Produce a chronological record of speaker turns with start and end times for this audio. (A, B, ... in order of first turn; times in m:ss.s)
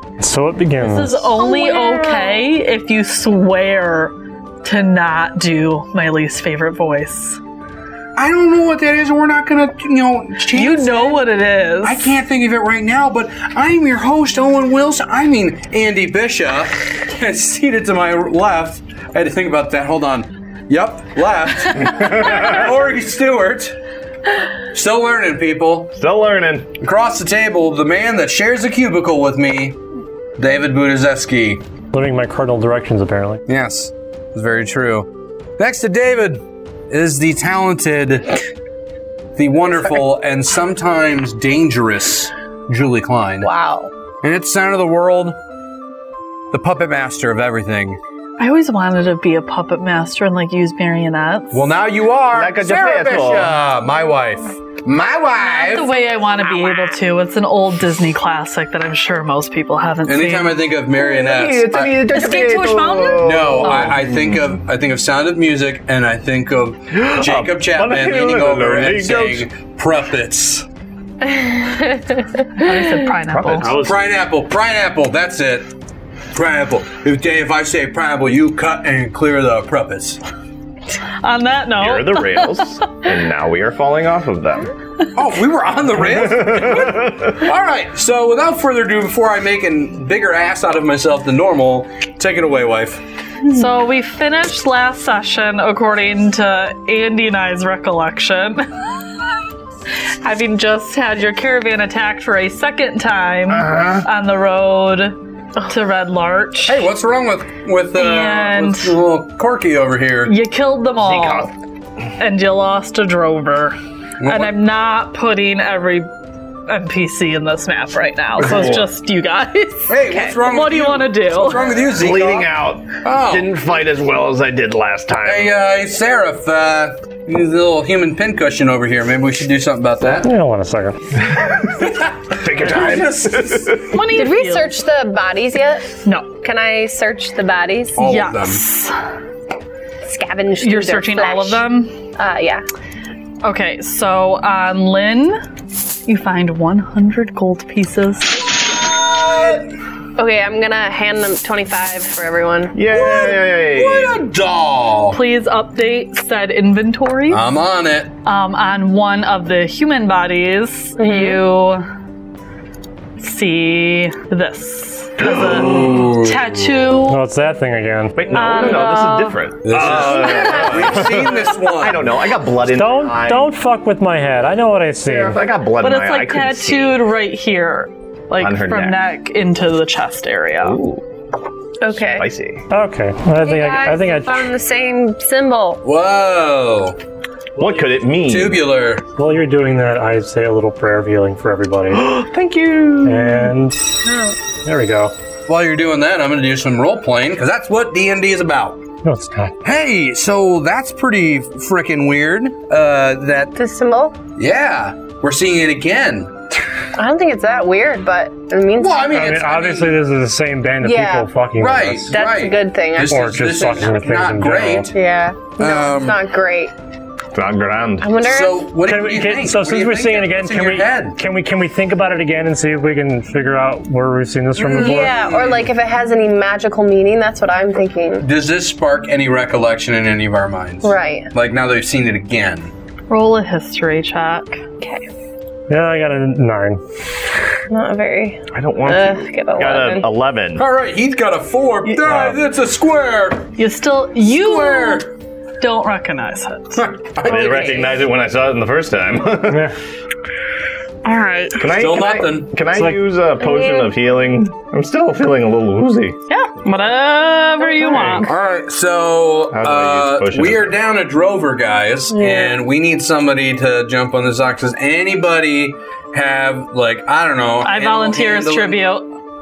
0:00.2-0:01.3 A
0:00.8-0:07.4 B
0:01.4-0:02.4 C
0:08.2-0:11.2 D
0:10.4-0:12.1 B
0:11.8-0:23.8 D
0:24.7-0:25.9 D
0:26.0-0:26.7 E
0:26.8-0:29.8 D
0:30.4-0:31.6 D
0:31.9-0:33.4 A
0:33.5-0:38.4 D
0:39.4-0:43.5 D
0:43.4-0:43.9 C
0:44.2-0:45.4 D
0:46.5-0:48.0 D
0:48.4-0:51.6 B
0:51.5-0:55.9 D
0:52.3-0:53.6 E
0:55.4-1:00.7 B
1:00.0-1:02.0 D
1:01.0-1:04.4 E
1:02.0-1:04.0 B
1:03.2-1:10.6 D
1:06.9-1:09.5 E
1:11.2-1:12.3 C
1:12.6-1:13.8 B
1:13.3-1:13.9 E
1:13.6-1:14.0 A
1:13.7-1:15.7 D
1:16.3-1:20.2 D
1:21.2-1:22.9 B
1:21.8-1:24.7 E
1:25.2-1:33.0 D
1:26.1-1:27.3 E
1:33.5-1:38.9 B
1:40.2-1:45.2 B
1:43.5-1:44.1 E
1:45.7-1:46.8 B
1:46.7-1:50.4 D
1:47.9-1:49.0 B
1:50.3-1:51.5 B
1:51.0-1:51.5 E
1:52.2-1:56.1 B
1:54.2-1:54.6 D
1:56.7-2:01.7 B
1:58.4-1:58.9 E
1:59.9-2:02.5 D
2:01.9-2:05.5 E
2:03.0-2:03.5 D
2:05.3-2:10.3 D
2:10.2-2:11.0 A
2:11.3-2:14.0 E
2:11.8-2:13.8 D
2:13.9-2:14.8 B
2:14.0-2:18.2 C
2:18.0-2:18.6 D
2:18.0-2:19.0 B
2:20.0-2:21.6 C
2:20.6-2:22.0 B
2:22.2-2:22.7 C
2:23.4-2:25.4 B
2:26.1-2:28.5 B
2:29.0-2:29.6 D
2:30.2-2:32.8 C
2:32.7-2:34.2 E
2:33.2-2:35.2 D
2:35.1-2:37.4 B
2:37.3-2:38.1 D
2:38.2-2:41.9 B
2:41.0-2:41.4 C
2:43.2-2:47.2 B
2:45.2-2:45.9 E
2:45.6-2:46.7 D
2:47.1-2:48.2 A
2:48.2-2:53.5 E
2:48.3-2:49.4 B
2:49.6-2:52.0 D
2:49.8-2:51.3 C
2:52.7-2:55.4 A
2:55.1-2:57.0 E
2:55.8-3:00.8 B
2:58.4-2:59.0 E
3:00.6-3:01.0 E
3:01.8-3:02.3 C
3:01.9-3:02.7 E
3:02.7-3:04.5 A
3:03.4-3:05.8 C
3:05.8-3:07.0 D
3:07.6-3:08.6 E
3:08.2-3:09.0 D
3:09.2-3:12.1 A
3:11.9-3:13.5 E
3:13.0-3:14.1 A
3:14.1-3:14.3 C
3:14.6-3:15.1 A
3:15.5-3:18.8 D
3:19.0-3:19.6 A
3:19.6-3:23.5 D
3:23.6-3:24.2 C
3:24.4-3:26.4 D
3:27.0-3:29.3 C
3:28.8-3:30.0 D
3:29.1-3:32.1 A
3:30.8-3:31.3 C
3:31.6-3:35.0 D
3:32.1-3:33.8 C
3:33.0-3:34.9 A
3:34.6-3:36.7 C
3:35.6-3:36.2 D
3:37.3-3:38.2 E
3:38.0-3:38.7 C
3:38.2-3:41.2 D
3:38.8-3:45.2 A
3:44.6-3:48.2 C
3:44.8-3:45.6 D
3:48.2-3:52.7 D
3:50.8-3:51.3 C
3:53.1-3:54.6 B
3:54.8-3:55.1 C
3:55.7-3:56.8 A
3:57.7-4:00.1 C
3:58.5-4:00.6 E
4:00.6-4:03.5 D
4:01.9-4:02.3 B
4:03.6-4:05.1 B
4:04.3-4:05.0 D
4:05.6-4:06.9 B
4:06.8-4:07.9 D
4:07.2-4:07.9 C
4:07.2-4:09.7 E
4:09.5-4:09.7 A
4:11.0-4:11.6 B
4:11.6-4:16.2 E
4:11.7-4:12.5 D
4:12.8-4:13.0 A
4:13.4-4:13.9 C
4:16.3-4:18.3 B
4:17.6-4:18.3 C
4:18.2-4:28.8 D
4:19.5-4:20.8 E
4:22.1-4:22.6 C
4:27.6-4:29.1 B